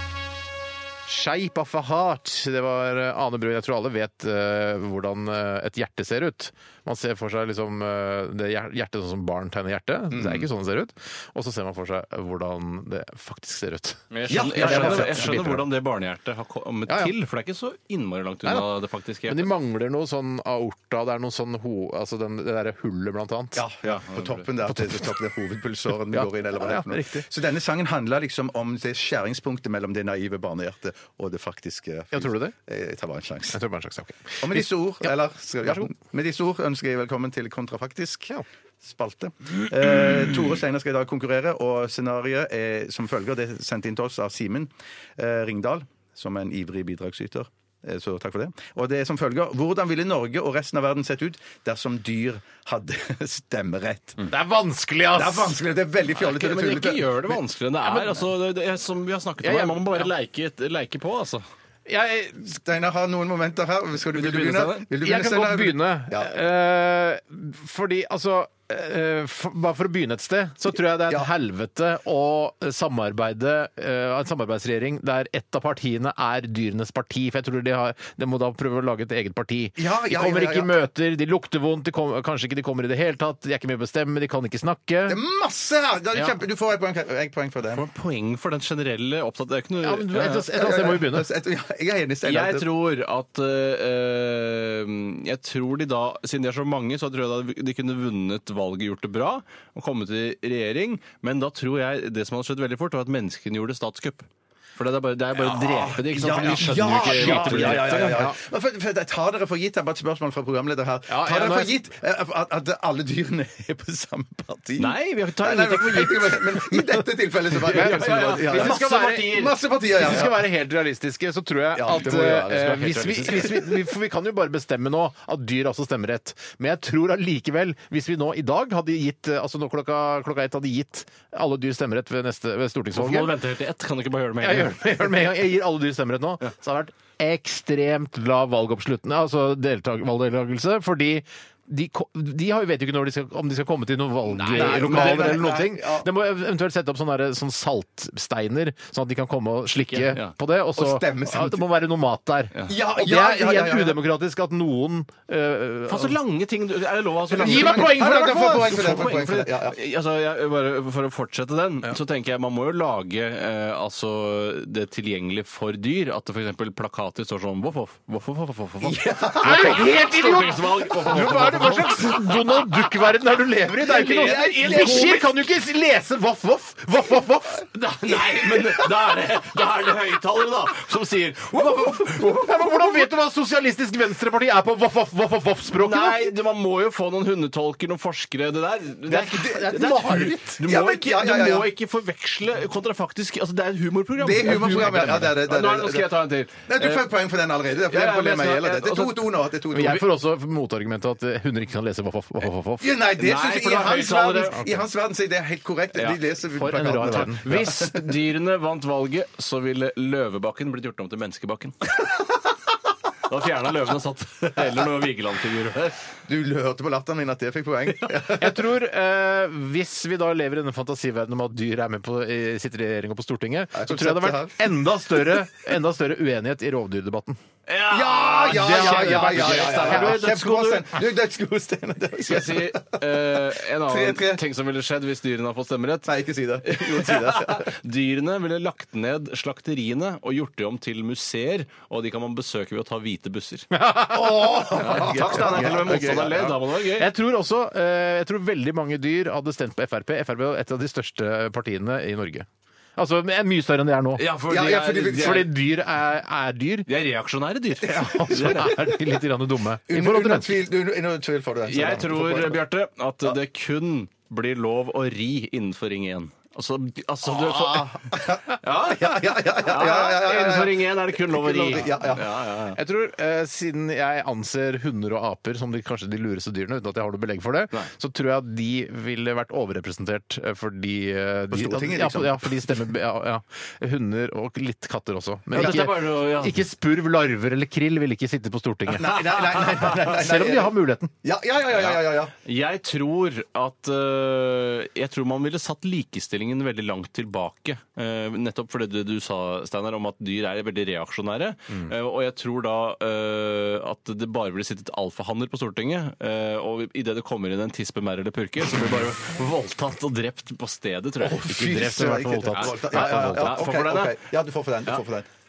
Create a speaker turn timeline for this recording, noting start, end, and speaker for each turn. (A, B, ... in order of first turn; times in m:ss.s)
0:01.1-0:15.7 A
0:10.1-0:10.5 B
0:14.1-0:19.5 C
0:14.3-0:15.5 B
0:16.9-0:17.1 A
0:19.3-0:23.6 A
0:23.5-0:33.6 B
0:23.8-0:24.4 C
0:24.6-0:25.2 A
0:25.9-0:27.2 A
0:32.1-0:32.5 A
0:33.5-0:35.1 A
0:34.4-0:54.3 B
0:54.2-0:55.6 A
0:55.1-0:57.1 B
0:56.1-1:01.4 C
0:59.4-1:00.1 A
1:01.9-1:02.5 A
1:02.4-1:06.3 B
1:04.1-1:04.9 C
1:05.0-1:25.2 A
1:19.8-1:20.7 B
1:25.1-1:27.8 B
1:27.7-1:30.5 C
1:29.8-1:31.3 A
1:30.2-1:32.7 B
1:32.2-1:48.2 C
1:45.4-2:00.3 B
1:46.3-1:48.4 A
1:51.1-1:51.7 A
1:54.8-1:56.7 C
1:57.6-1:59.4 A
1:57.6-1:59.5 C
1:59.9-2:13.3 A
2:01.7-2:03.4 B
2:01.9-2:03.6 C
2:12.9-2:15.1 C
2:14.4-2:36.2 A
2:24.3-2:25.4 C
2:24.4-2:26.1 B
2:29.8-2:30.3 C
2:30.8-2:31.7 B
2:32.6-2:34.0 B
2:35.9-2:52.7 C
2:37.3-2:39.8 B
2:37.4-2:39.1 A
2:48.8-2:49.8 B
2:49.4-2:57.7 A
2:53.8-2:55.3 C
2:53.8-2:55.2 B
2:57.7-3:03.0 C
3:02.1-3:06.3 A
3:05.7-3:17.1 C
3:09.1-3:10.6 A
3:10.3-3:11.7 B
3:14.2-3:20.0 B
3:17.8-3:19.2 C
3:19.7-3:23.0 A
3:22.8-3:28.1 B
3:23.2-3:24.6 C
3:26.5-3:27.6 A
3:27.0-3:32.0 C
3:33.3-3:36.1 C
3:36.3-3:38.6 B
3:38.3-3:47.4 A
3:43.7-3:44.6 B
3:47.6-3:50.9 C
3:47.9-3:54.4 B
3:48.4-3:50.3 A
3:52.2-3:56.1 C
3:56.0-3:57.7 B
3:56.6-4:03.7 C
4:03.7-4:06.3 A
4:04.1-4:06.6 B
4:04.7-4:07.1 C
4:06.9-4:14.2 A
4:14.2-4:15.5 C
4:14.5-4:15.5 B
4:15.1-4:16.9 A
4:16.9-4:18.9 C
4:17.8-4:20.6 A
4:17.9-4:18.6 B
4:19.9-4:22.6 B
4:21.7-4:32.8 C
4:27.2-4:32.3 B
4:32.7-4:51.1 A
4:41.5-4:42.8 B
4:45.5-4:46.6 C
4:48.9-4:52.3 B
4:51.7-5:11.5 C
5:11.2-5:15.3 B
5:11.4-5:13.6 A
5:12.5-5:14.2 C